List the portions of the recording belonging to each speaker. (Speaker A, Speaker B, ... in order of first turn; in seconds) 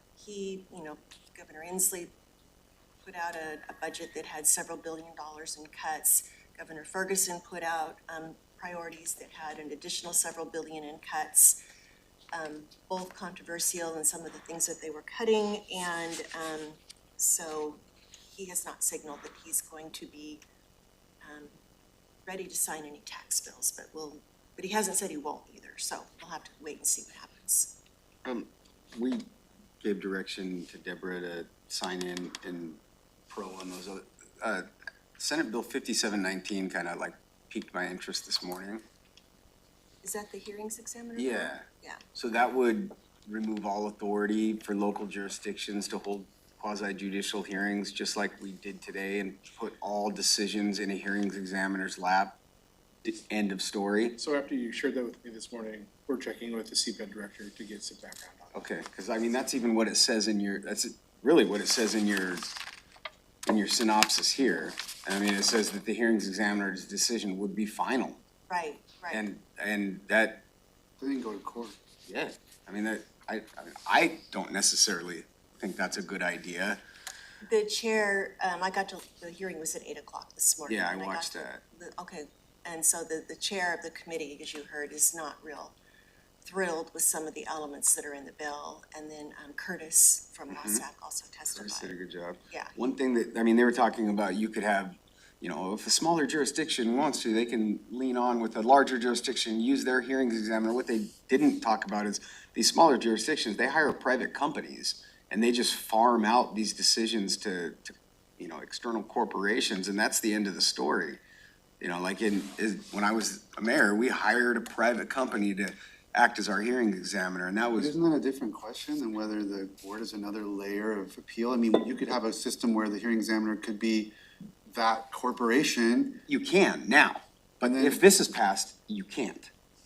Speaker A: 0.2-2.1, 3.0-11.6, 12.3-20.4, 21.2-21.5, 22.3-27.8, 40.0-42.0, 68.5-69.2, 77.4-85.8, 86.4-92.0, 92.5-92.8
Speaker B: 28.2-29.3, 29.8-34.7, 35.2-38.8, 41.2-52.4, 53.0-54.2, 58.5-62.5, 63.5-68.2, 69.1-70.4, 72.1-76.8, 80.7-81.6, 90.5-90.8, 91.5-111.2, 111.8-117.9, 126.3-129.5
Speaker C: 54.2-58.7
Speaker D: 71.0-71.8, 117.8-124.1, 124.7-126.2, 127.6-128.0